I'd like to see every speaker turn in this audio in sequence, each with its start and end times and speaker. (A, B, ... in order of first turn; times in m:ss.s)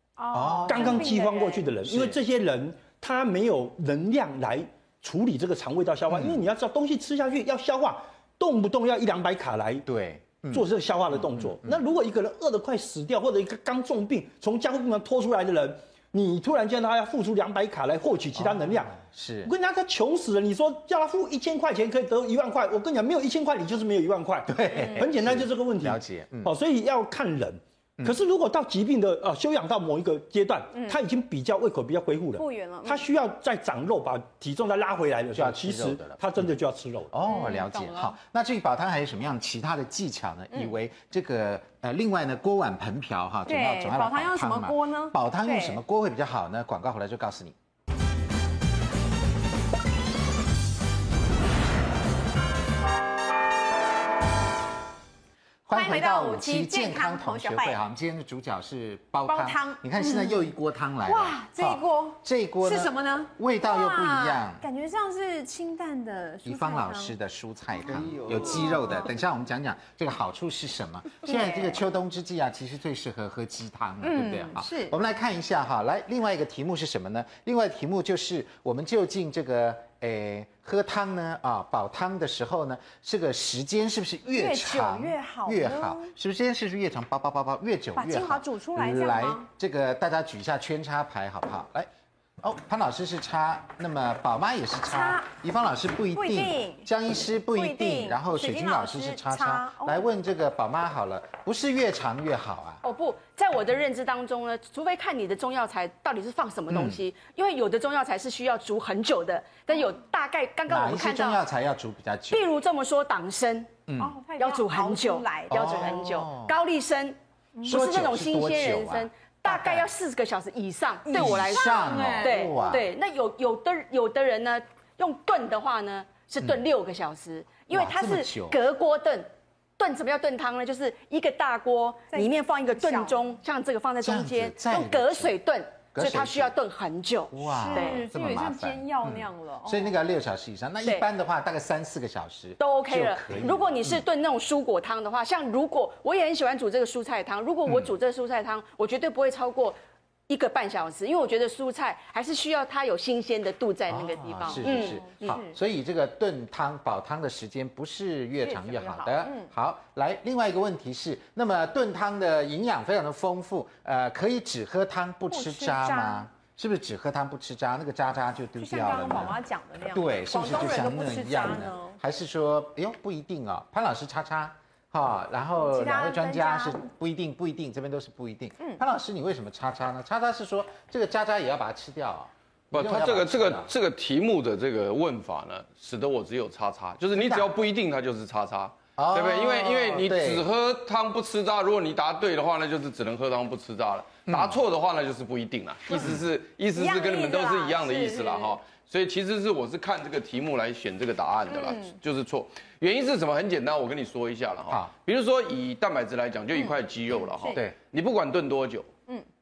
0:00.2-0:01.7 A
0:00.3-0:01.2 B
0:00.6-0:09.8 C
0:01.8-0:02.2 B
0:06.1-0:06.4 B
0:09.9-0:11.8 B
0:10.5-0:37.4 C
0:18.4-0:19.5 B
0:24.5-0:26.5 B
0:30.7-0:31.0 A
0:32.4-0:33.1 A
0:35.4-0:36.5 B
0:37.1-0:47.6 B
0:37.2-0:38.1 A
0:43.5-0:45.8 A
0:55.7-1:04.6 B
0:55.7-0:57.8 A
0:59.3-1:00.5 A
1:01.0-1:07.2 A
1:06.4-1:31.9 B
1:07.8-1:09.1 A
1:11.2-1:11.8 A
1:14.0-1:14.9 A
1:24.3-1:26.1 A
1:28.0-1:29.4 A
1:32.4-1:42.8 B
1:34.8-1:35.3 A
1:36.2-1:36.9 A
1:37.5-1:40.0 A
1:42.8-1:51.4 D
1:46.7-1:47.0 B
1:50.7-1:52.5 B
1:52.3-1:53.8 D
1:53.9-1:54.2 B
1:54.0-1:56.0 A
1:54.4-2:18.0 D
1:55.5-1:56.6 B
1:57.6-1:59.9 B
2:01.1-2:02.8 A
2:01.1-2:02.9 B
2:07.7-2:08.6 B
2:12.1-2:13.2 A
2:14.0-2:15.4 B
2:16.0-2:16.6 B
2:17.3-2:24.0 B
2:17.5-2:19.9 A
2:22.6-2:29.8 D
2:30.3-2:35.4 D
2:33.9-3:03.7 B
2:34.5-2:35.5 A
2:38.4-2:39.5 A
2:45.3-2:46.2 A
2:48.6-2:52.0 A
2:55.6-2:56.8 A
3:02.7-3:28.9 E
3:07.2-3:07.5 B
3:09.0-3:10.5 B
3:14.3-3:14.6 B
3:15.9-3:16.2 B
3:16.7-3:18.6 A
3:21.5-3:22.0 A